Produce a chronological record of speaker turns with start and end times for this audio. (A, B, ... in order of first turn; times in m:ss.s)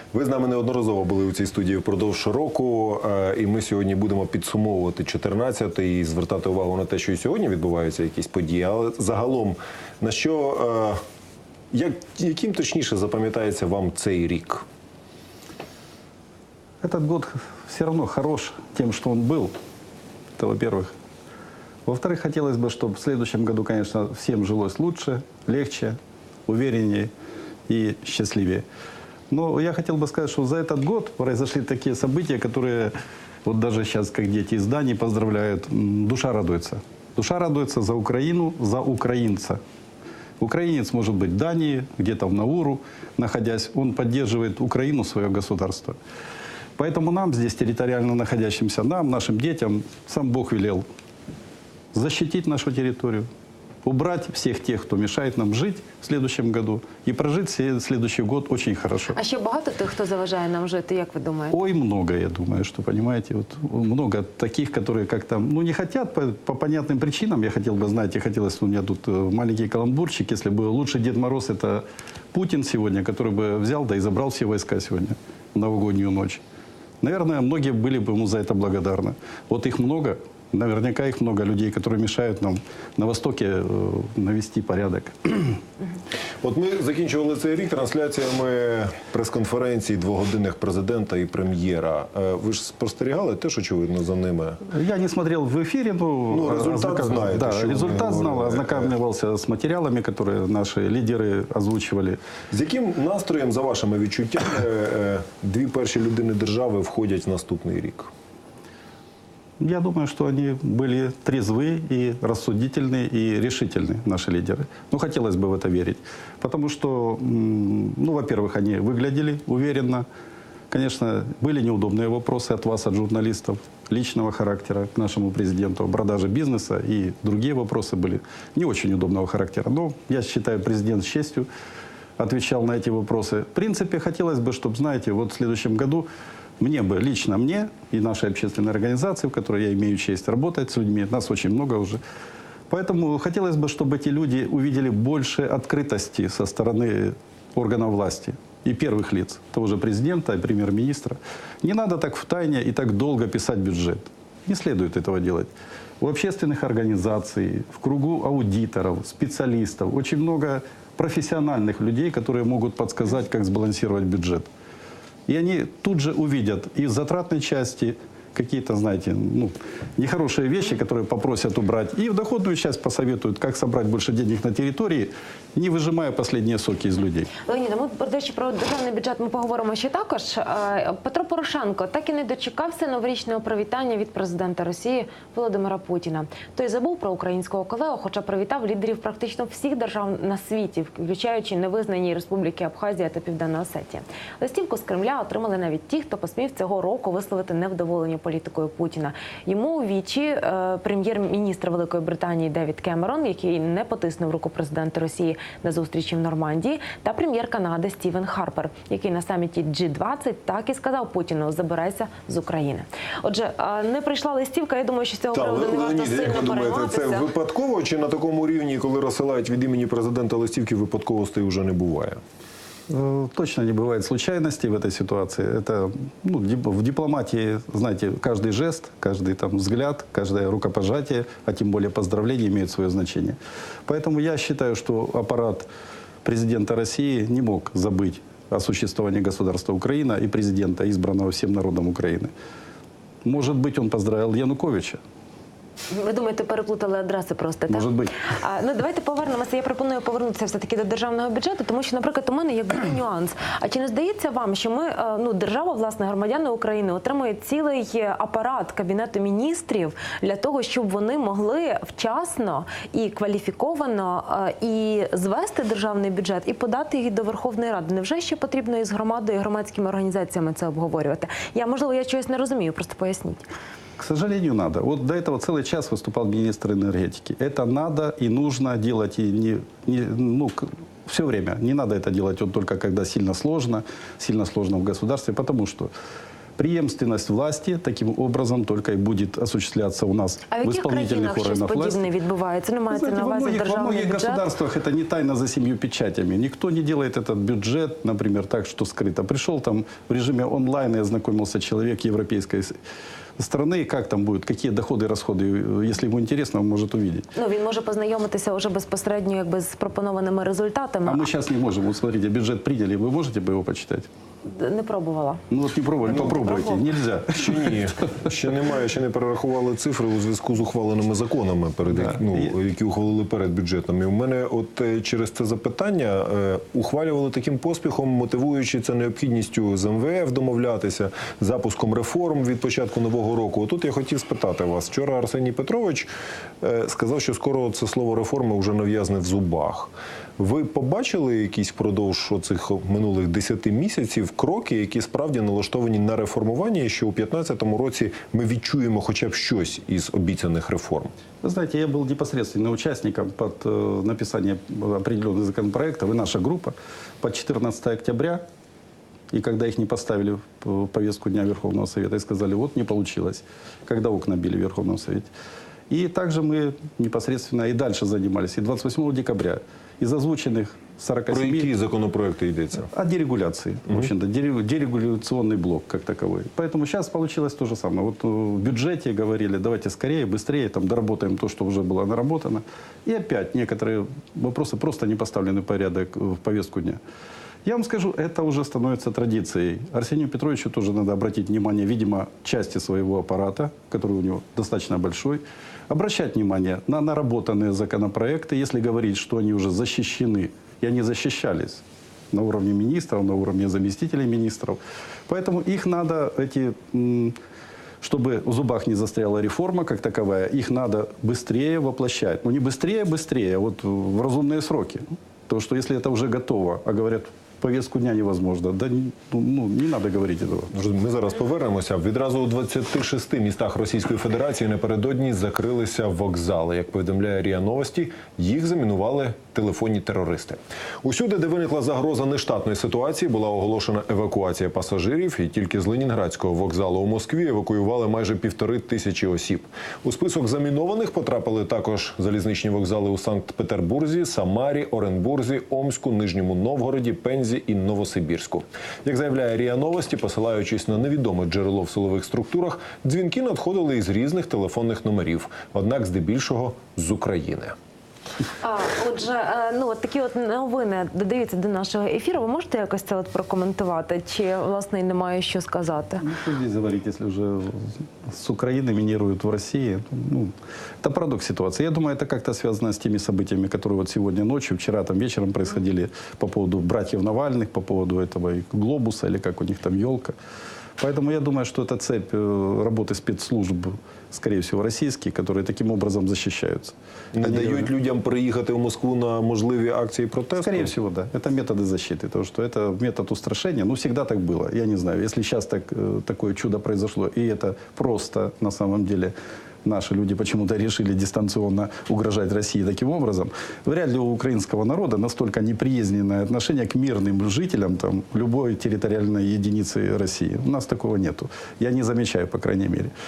0:00.1-0:11.0 A
0:11.7-0:14.6 A
0:16.8-0:19.5 B
0:20.4-0:20.9 B
0:21.9-0:27.1 B
0:27.7-0:28.6 B
0:29.3-0:32.9 B
0:33.4-0:39.6 B
0:40.4-0:46.0 B
0:46.8-0:50.8 B
0:51.9-0:53.3 B
0:53.8-0:59.2 B
0:59.1-1:01.6 C
1:01.5-1:16.4 B
1:17.0-1:25.6 B
1:26.4-1:34.6 A
1:34.7-1:42.2 B
1:36.3-1:38.9 A
1:42.5-1:48.1 A
1:49.6-2:00.1 B
2:00.7-2:11.5 B
2:12.2-2:16.1 B
2:16.6-2:22.0 B
2:22.7-2:44.5 B
2:45.3-2:57.3 B
2:57.4-3:37.3 C
3:35.3-3:42.2 A
3:42.9-3:55.7 B
3:56.2-4:02.3 B
4:03.2-4:05.0 B
4:05.9-4:33.5 C
4:07.7-4:08.2 B
4:34.0-4:45.9 B
4:46.6-4:52.0 B
4:50.5-4:54.5 C
4:52.9-5:02.7 B
5:03.4-5:07.3 B
5:07.4-5:11.3 C
5:11.1-5:14.1 B
5:14.4-5:15.4 C
5:15.5-5:17.9 B
5:16.1-5:16.9 C
5:17.4-5:36.1 A
5:21.9-5:22.5 B
5:36.6-5:51.1 A
5:51.4-5:58.4 B
5:59.3-6:05.3 B
6:05.9-6:11.7 B
6:11.3-6:12.9 A
6:12.9-6:27.0 B
6:27.6-6:47.4 B
6:48.0-7:00.7 B
7:00.7-7:37.7 A
7:38.6-7:46.2 C
7:46.2-8:00.4 B
8:01.0-8:07.9 B
8:07.3-8:10.9 A
8:10.6-8:33.1 B